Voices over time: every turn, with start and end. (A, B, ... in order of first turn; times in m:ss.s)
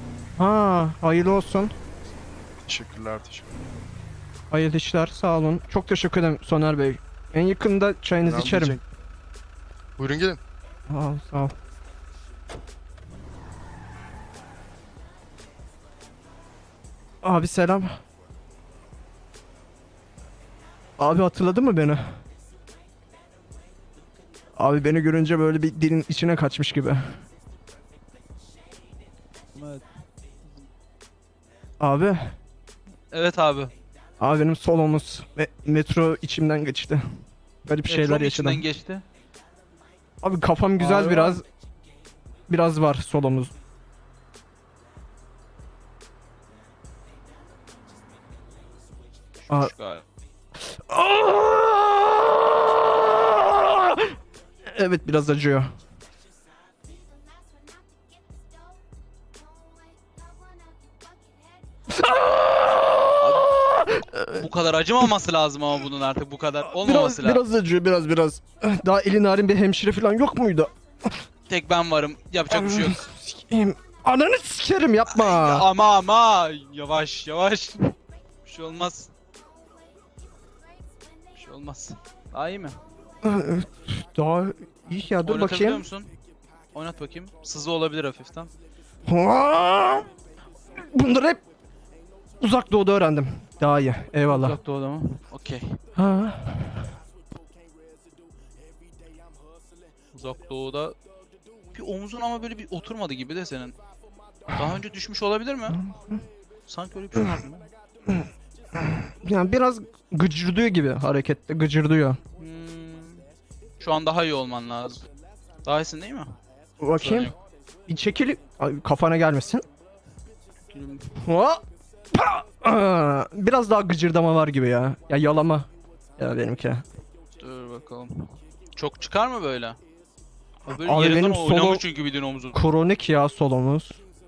0:00.4-0:01.7 A
0:02.6-0:03.7 B
0:04.5-0:08.8 A
0:08.2-0:08.8 B
0:10.0-0:10.4 B
0:10.9-0:11.5 A
0:17.2-0:18.0 A
0:21.0-0:22.0 A
0:24.6-0:27.0 A
0:29.6-0:29.9 C
0:31.8-0:32.3 A
0:33.1-0:33.7 C
0:34.2-0:37.0 A
0:37.7-0:38.6 A
0:37.9-0:39.0 C
0:40.2-0:41.4 A
0:40.8-0:41.4 C
0:42.5-0:43.5 A
0:49.4-0:50.0 C
0:50.6-0:54.2 A
0:54.7-0:55.7 A
1:01.9-1:04.5 A
1:03.2-1:03.5 C
1:04.4-1:07.4 C
1:06.8-1:11.2 A
1:11.5-1:13.1 C
1:12.5-1:15.7 A
1:15.1-1:17.9 C
1:18.4-1:19.1 C
1:21.3-1:22.8 C
1:23.2-1:25.8 A
1:25.2-1:26.1 C
1:26.7-1:28.5 C
1:29.1-1:30.1 A
1:30.8-1:31.4 A
1:32.4-1:34.6 A
1:34.3-1:35.8 C
1:36.0-1:36.9 A
1:40.1-1:41.0 C
1:41.7-1:43.8 C
1:44.5-1:45.8 C
1:45.7-1:46.2 A
1:46.7-1:47.7 C
1:48.1-1:52.2 A
1:52.4-1:53.3 C
1:53.8-1:55.1 C
1:55.6-1:56.4 C
1:56.8-1:57.3 A
1:57.0-1:57.4 C
1:57.9-1:59.6 A
2:00.7-2:01.1 C
2:01.2-2:06.8 A
2:07.4-2:09.8 C
2:10.7-2:12.6 C
2:10.7-2:11.8 A
2:12.5-2:14.0 A